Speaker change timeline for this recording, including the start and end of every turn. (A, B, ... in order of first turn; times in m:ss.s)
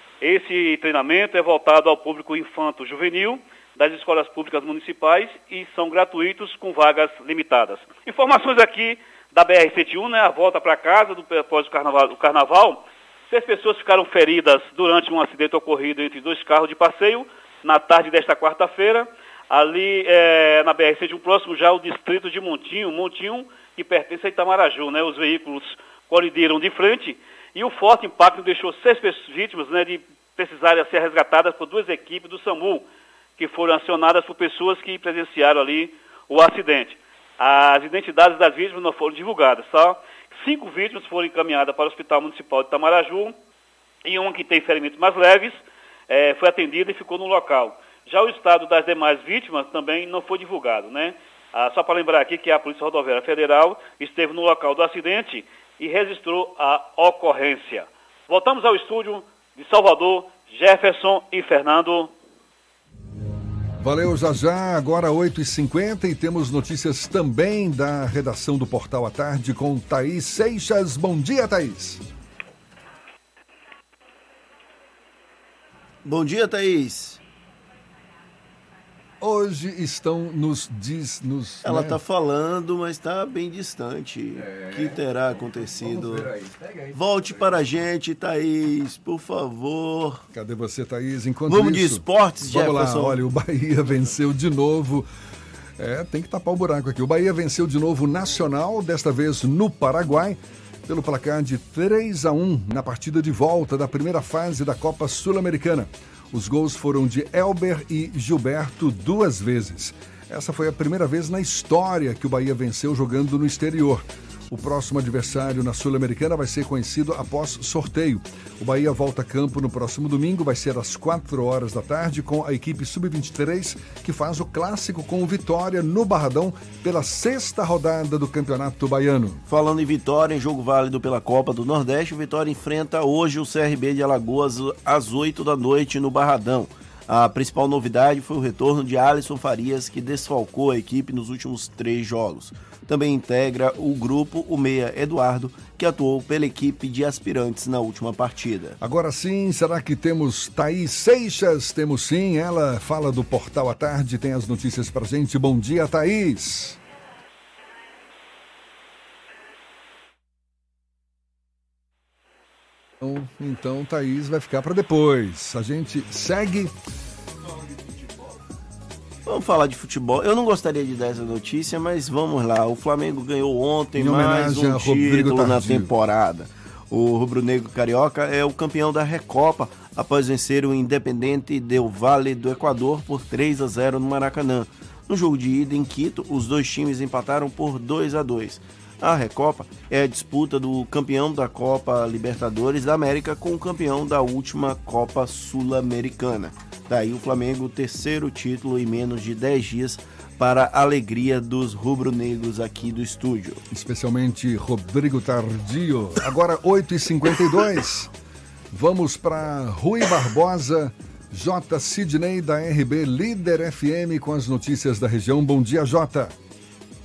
0:00.2-0:32.8 A
0:33.4-0:43.3 A
0:44.0-1:02.1 A
1:03.8-1:12.0 B
1:16.0-1:17.2 C
1:19.2-1:22.0 B
1:21.6-1:26.4 C
1:26.9-1:30.2 C
1:30.3-1:35.1 B
1:31.5-1:33.2 C
1:35.8-2:09.4 B
2:09.5-2:28.8 C
2:28.8-2:36.8 B
2:43.0-2:46.7 B
2:49.2-3:23.6 C
2:54.0-2:55.9 B
3:23.7-3:28.1 B
3:28.7-3:36.3 B